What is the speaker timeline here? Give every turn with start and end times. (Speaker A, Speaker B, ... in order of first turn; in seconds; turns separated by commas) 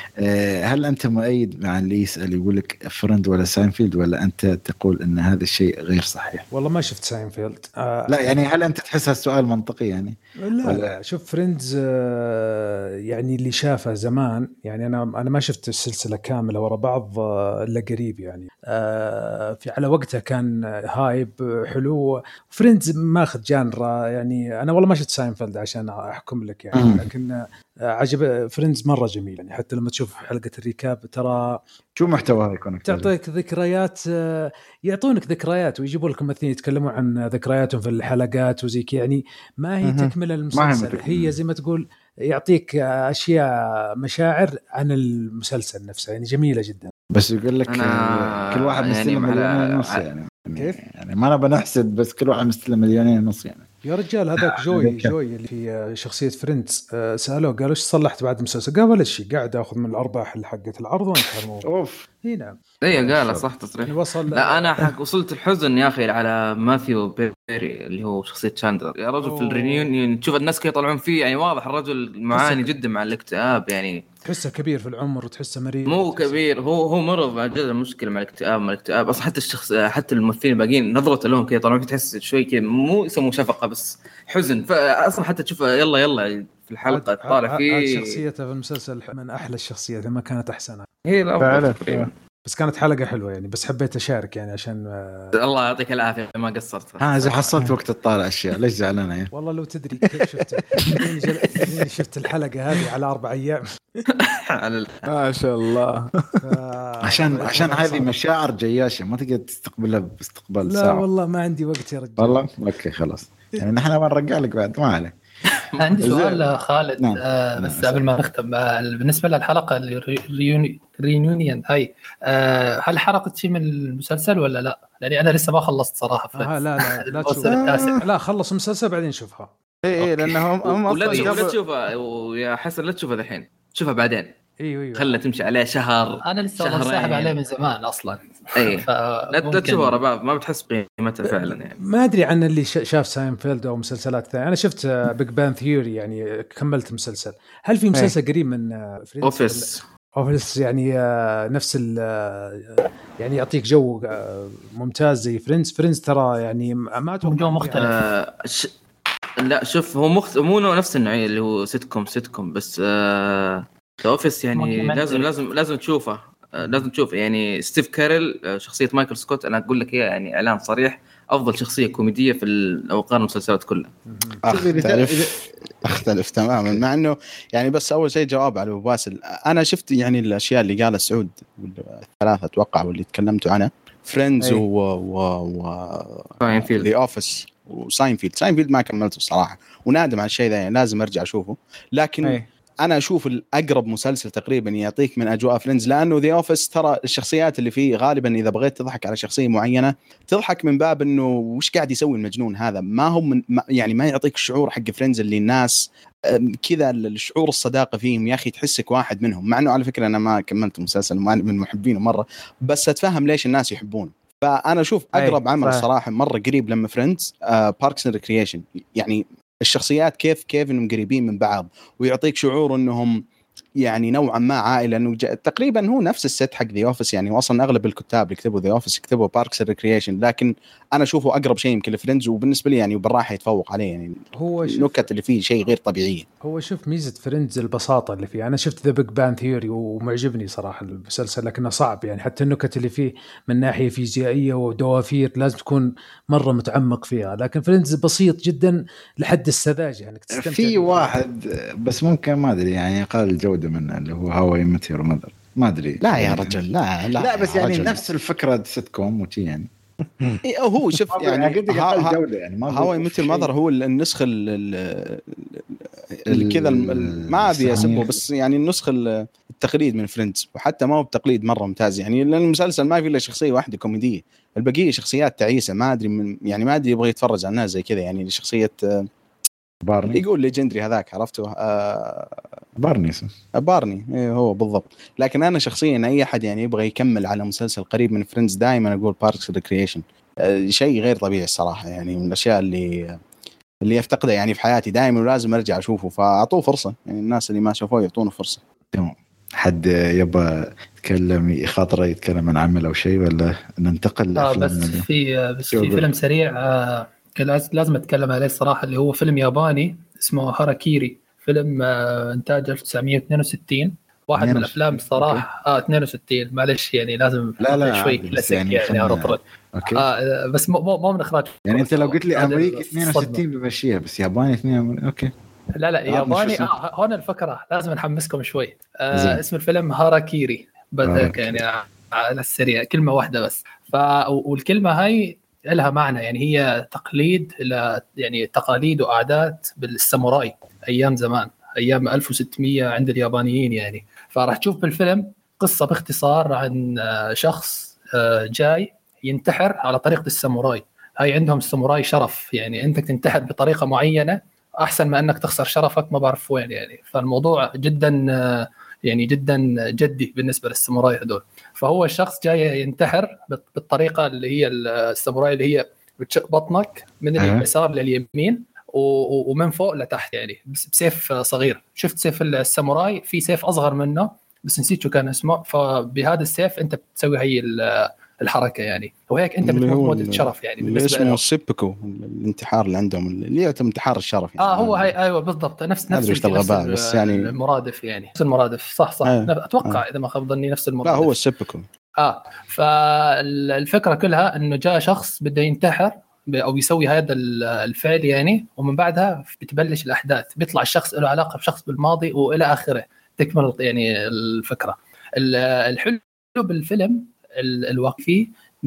Speaker A: 0.2-6.5, Speaker B: 6.5-8.3, Speaker A: 8.1-10.9, Speaker B: 10.4-31.6, Speaker A: 26.7-27.1, Speaker A: 32.0-33.1, Speaker B: 32.9-43.5, Speaker C: 39.8-40.1, Speaker A: 40.5-41.4, Speaker B: 44.0-46.9, Speaker A: 47.1-53.7, Speaker D: 47.7-50.0, Speaker B: 53.8-61.7, Speaker A: 54.4-55.1, Speaker A: 61.6-62.1, Speaker B: 62.2-62.6, Speaker D: 62.8-74.0, Speaker A: 63.1-63.5, Speaker B: 63.8-64.7, Speaker B: 69.2-69.9, Speaker B: 72.3-72.7, Speaker B: 74.2-76.4, Speaker D: 75.9-88.2, Speaker B: 86.9-90.9, Speaker D: 91.0-92.1, Speaker C: 91.4-92.1, Speaker B: 92.5-95.3, Speaker D: 95.4-97.5, Speaker A: 97.0-99.3, Speaker B: 99.3-103.8, Speaker D: 104.1-105.0, Speaker C: 105.1-106.4, Speaker B: 106.4-108.2, Speaker A: 107.0-111.0, Speaker B: 110.7-112.5, Speaker A: 112.2-115.2, Speaker E: 115.8-128.0, Speaker A: 116.0-116.5, Speaker A: 117.0-118.1, Speaker B: 126.3-129.5, Speaker C: 127.5-127.9, Speaker C: 129.8-131.6, Speaker D: 130.9-134.3, Speaker B: 134.6-135.1, Speaker D: 134.9-137.4, Speaker E: 136.2-140.0, Speaker D: 138.6-141.8, Speaker B: 141.2-157.9, Speaker D: 149.2-149.8, Speaker E: 157.2-158.0, Speaker D: 157.7-158.7, Speaker D: 159.4-173.9, Speaker E: 164.5-165.3, Speaker B: 174.1-174.4, Speaker A: 174.4-176.0, Speaker F: 174.5-205.8, Speaker D: 186.4-186.9, Speaker F: 206.3-223.2, Speaker C: 215.1-215.9, Speaker F: 223.8-236.3, Speaker B: 234.3-235.1, Speaker B: 236.4-251.2, Speaker A: 250.3-256.6, Speaker F: 256.0-258.0, Speaker A: 257.2-259.7, Speaker F: 260.4-279.1, Speaker A: 261.1-263.5, Speaker A: 266.3-268.2, Speaker A: 279.8-280.2, Speaker F: 280.1-282.4, Speaker A: 282.8-283.3, Speaker F: 283.6-293.2, Speaker F: 293.9-298.6, Speaker A: 298.9-305.1, Speaker E: 304.4-323.4, Speaker A: 305.7-306.1, Speaker A: 314.4-315.5, Speaker A: 317.6-320.1, Speaker A: 321.7-325.3, Speaker E: 325.8-381.4, Speaker A: 326.1-326.7, Speaker A: 329.1-329.4, Speaker A: 331.0-331.6, Speaker A: 367.4-367.7, Speaker F: 379.6-385.1, Speaker E: 384.6-391.4, Speaker F: 386.1-387.5, Speaker F: 389.2-390.0, Speaker F: 391.1-391.9, Speaker E: 392.2-408.5